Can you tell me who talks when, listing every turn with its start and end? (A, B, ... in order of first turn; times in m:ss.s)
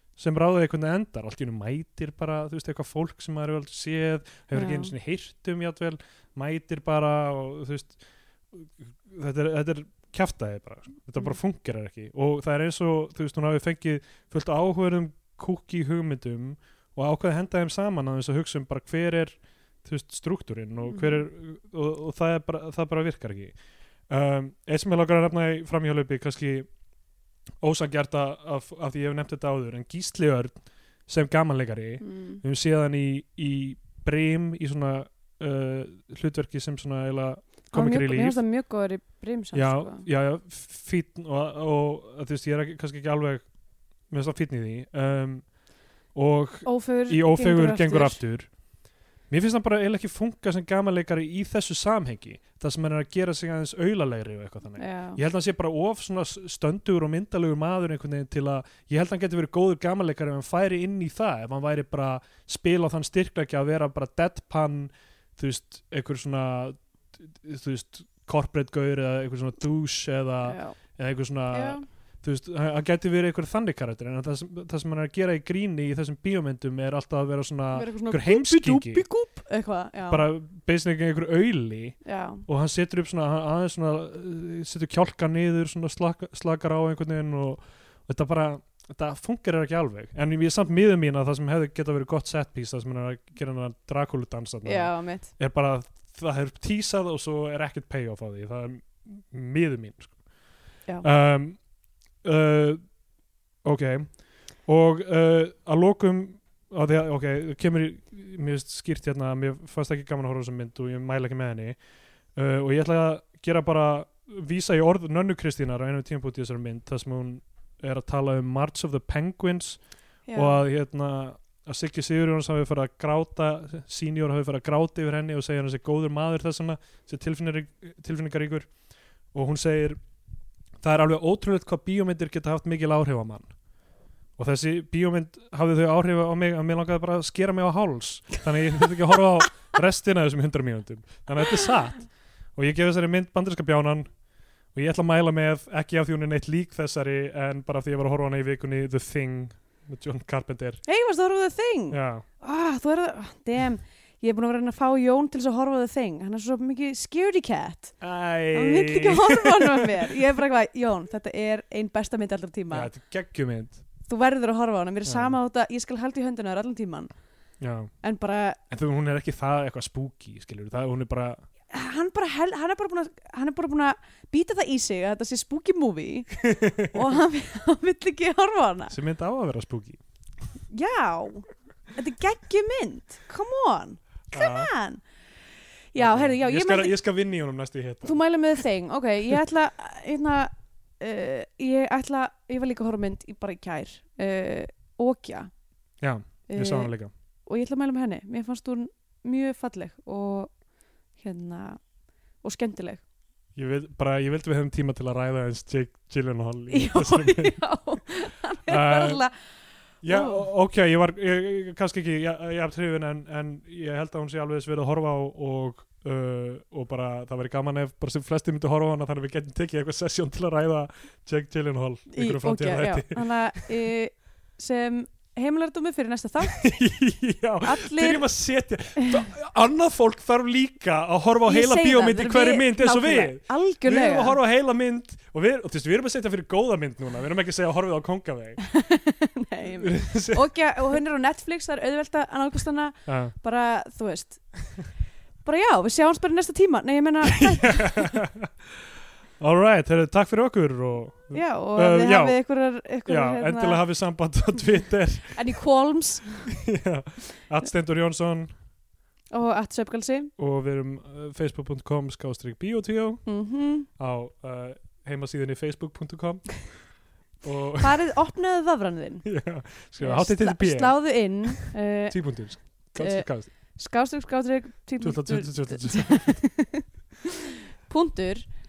0:00.2-0:08.0 A
0:04.5-0:04.9 B
0:08.5-0:23.6 A
0:20.8-0:21.2 B
0:24.1-0:26.7 A
0:27.6-0:38.4 A
0:32.0-0:32.4 B
0:37.7-0:40.0 B
0:39.5-0:43.5 A
0:44.0-0:45.6 A
0:46.1-1:19.1 A
0:46.6-0:48.2 B
0:54.8-0:55.2 B
1:10.4-1:10.8 B
1:11.5-1:11.8 B
1:17.7-1:20.2 B
1:20.1-1:40.2 A
1:22.0-1:22.4 B
1:34.6-1:35.3 B
1:41.0-1:41.7 A
1:42.2-1:43.0 A
1:43.6-1:51.8 A
1:52.3-2:10.0 A
2:00.2-2:00.6 B
2:10.8-2:13.5 A
2:14.4-2:24.1 A
2:24.7-2:30.8 A
2:30.8-2:38.0 B
2:31.9-2:32.2 A
2:38.0-2:40.1 A
2:38.5-2:42.9 B
2:42.7-2:43.8 A
2:44.1-2:47.1 B
2:45.0-2:45.4 A
2:47.6-2:47.9 A
2:48.0-2:48.6 B
2:48.7-2:51.4 A
2:51.7-2:58.9 B
2:56.3-2:57.0 A
2:58.9-3:00.0 A
3:00.7-3:05.0 B
3:04.3-3:04.7 A
3:05.9-3:06.9 B
3:05.9-3:08.2 A
3:08.0-3:15.5 B
3:16.0-3:17.1 A
3:16.5-3:16.9 B
3:17.4-3:20.6 B
3:21.1-3:21.8 B
3:22.4-3:23.0 B
3:23.5-3:27.6 A
3:26.7-3:29.4 B
3:28.7-3:29.2 A
3:30.0-3:43.7 A
3:30.1-3:30.4 B
3:42.1-3:46.7 B
3:46.5-3:58.6 A
3:47.6-3:48.2 B
3:51.5-3:54.4 B
3:58.7-4:04.9 B
3:59.8-4:00.7 A
4:03.0-4:03.3 A
4:05.4-4:08.1 B
4:07.4-4:08.5 A
4:09.4-4:12.4 A
4:11.3-4:13.8 B
4:13.0-4:15.5 A
4:15.3-4:16.5 B
4:16.5-4:18.5 A
4:19.3-4:20.3 B
4:20.4-4:23.3 A
4:23.2-4:23.9 B
4:23.9-4:28.0 A
4:27.8-4:29.3 B
4:29.2-4:33.5 A
4:30.0-4:36.8 B
4:35.0-4:36.5 A
4:37.8-4:38.5 B